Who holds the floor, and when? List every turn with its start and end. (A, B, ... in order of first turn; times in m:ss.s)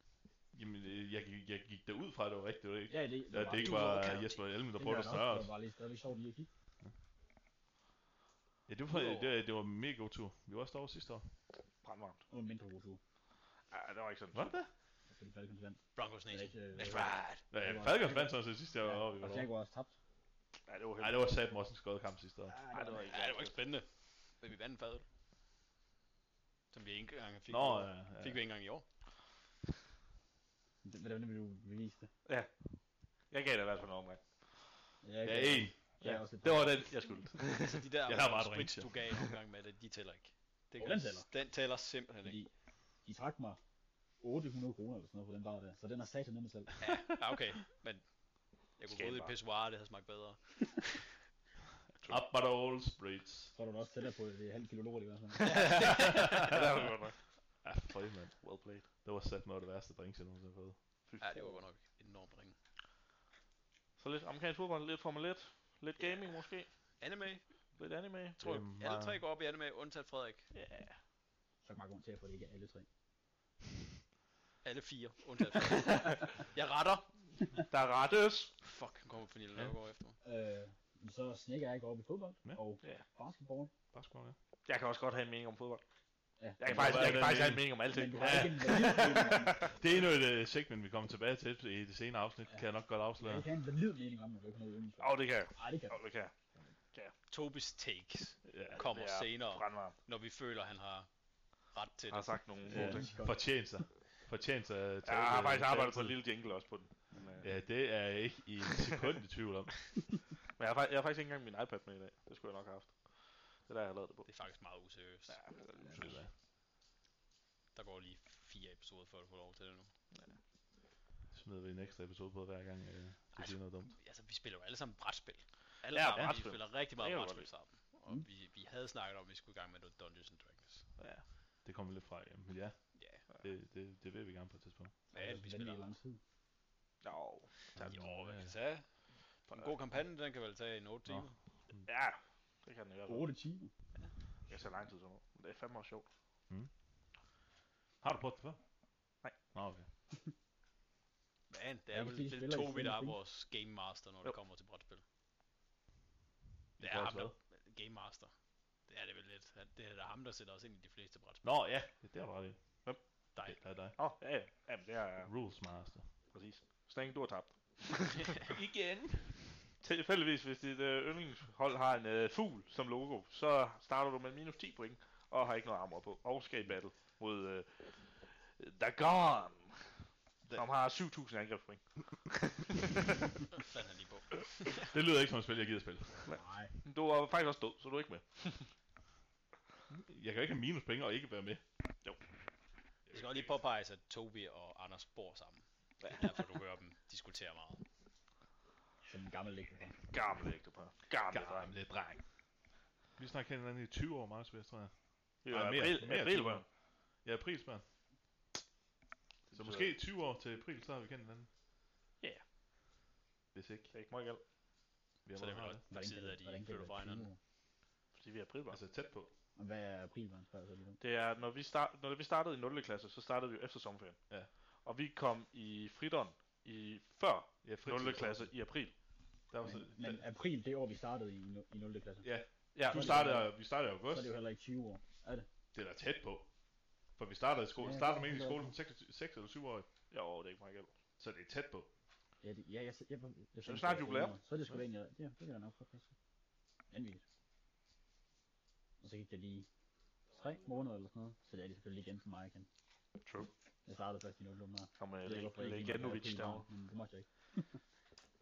0:00.5-0:05.5 A
0:02.9-0:04.1 B
0:03.5-0:04.5 C
0:04.7-0:06.5 B
0:08.7-0:11.3 A
0:08.9-0:09.3 C
0:11.8-0:12.2 D
0:12.3-0:13.0 B
0:13.7-0:14.5 D
0:14.3-0:14.7 A
0:15.1-0:19.9 B
0:16.0-0:17.4 C
0:17.5-0:19.5 A
0:20.7-0:21.2 D
0:21.0-0:22.6 A
0:22.5-0:23.1 B
0:22.7-0:23.5 D
0:22.9-0:23.9 C
0:24.4-0:25.0 C
0:26.7-0:28.8 C
0:27.5-0:28.4 A
0:30.8-0:32.1 B
0:33.3-0:34.2 D
0:35.0-0:36.9 B
0:35.2-0:35.8 A
0:36.0-0:37.8 D
0:37.6-0:42.4 C
0:38.1-0:38.9 A
0:40.8-0:41.3 B
0:42.2-0:42.5 B
0:43.0-0:43.6 B
0:44.2-0:46.8 B
0:46.8-0:48.0 C
0:48.8-0:51.0 C
0:48.9-0:49.4 D
0:52.0-0:52.2 D
0:52.1-0:53.5 A
0:53.5-0:56.1 B
0:55.4-0:57.2 D
0:55.5-0:56.1 C
0:56.2-0:56.6 A
0:57.6-1:00.8 A
0:58.4-0:58.9 D
1:01.1-1:01.6 D
1:01.2-1:02.6 C
1:04.0-1:06.7 D
1:06.0-1:06.4 C
1:07.0-1:07.5 C
1:07.8-1:08.4 D
1:08.4-1:10.5 C
1:08.4-1:09.2 A
1:10.5-1:11.0 D
1:11.6-1:12.9 B
1:14.6-1:17.1 C
1:17.7-1:18.5 D
1:18.6-1:20.2 C
1:20.2-1:23.7 B
1:23.9-1:24.4 A
1:24.6-1:25.8 D
1:26.4-1:29.8 B
1:26.6-1:29.7 D
1:26.7-1:28.8 A
1:29.7-1:33.5 A
1:33.2-1:36.0 B
1:35.0-1:36.3 D
1:37.3-1:41.1 C
1:38.5-1:38.7 A
1:38.6-1:39.9 D
1:41.7-1:42.4 C
1:42.1-1:43.2 D
1:42.7-1:43.5 B
1:42.7-1:46.2 A
1:45.0-1:47.4 D
1:47.4-1:49.9 A
1:50.6-1:54.3 D
1:54.2-1:55.4 C
1:55.3-1:56.2 D
1:55.9-1:56.3 A
1:57.7-1:59.9 C
2:01.3-2:04.0 A
2:03.3-2:10.8 C
2:05.9-2:07.5 D
2:11.0-2:11.2 D
2:11.6-2:12.8 A
2:12.9-2:13.2 C
2:13.3-2:14.9 A
2:15.1-2:16.2 B
2:15.1-2:15.9 C
2:17.0-2:17.5 D
2:17.7-2:18.9 C
2:17.7-2:18.6 A
2:19.4-2:21.4 C
2:21.0-2:21.9 A
2:21.8-2:23.3 D
2:23.0-2:23.7 B
2:24.5-2:26.1 D
2:28.0-2:28.6 A
2:29.5-2:29.9 A
2:31.5-2:35.0 C
2:31.9-2:33.2 B
2:36.8-2:37.3 A
2:36.8-2:38.3 C
2:38.9-2:41.4 C
2:41.4-2:42.6 A
2:43.4-2:44.0 A
2:44.0-2:45.3 D
2:45.2-2:46.1 A
2:46.3-2:48.3 D
2:48.4-2:49.7 A
2:49.8-2:59.8 D
3:00.5-3:01.8 D
3:02.3-3:03.2 D
3:03.5-3:04.9 C
3:04.7-3:06.4 A
3:06.3-3:08.7 D
3:06.3-3:06.7 B
3:09.9-3:11.6 A
3:13.1-3:17.8 C
3:16.0-3:16.3 D
3:19.0-3:20.0 B
3:20.1-3:21.8 D
3:21.3-3:22.2 A
3:23.2-3:24.9 A
3:25.4-3:26.6 D
3:25.5-3:26.6 A
3:27.2-3:27.8 A
3:29.5-3:29.9 D
3:29.5-3:31.5 A
3:33.5-3:33.9 A
3:33.9-3:34.4 D
3:35.2-3:35.8 A
3:35.3-3:37.3 C
3:35.9-3:37.4 B
3:38.1-3:38.8 D
3:38.7-3:39.3 A
3:39.6-3:41.0 B
3:41.0-3:44.2 D
3:44.8-3:48.9 D
3:47.6-3:48.5 A
3:49.5-3:50.2 A
3:49.6-3:52.3 B
3:52.2-3:54.3 A
3:52.7-3:53.3 D
3:52.8-3:55.5 B
3:55.7-3:56.5 A
3:57.2-3:59.8 A
3:57.8-3:58.7 B
4:00.1-4:00.9 D
4:01.2-4:01.9 A
4:02.4-4:06.1 B
4:03.6-4:04.4 D
4:06.9-4:07.2 B
4:09.0-4:09.7 B
4:10.3-4:12.7 B
4:13.2-4:13.5 D
4:13.8-4:17.8 B
4:15.0-4:16.6 D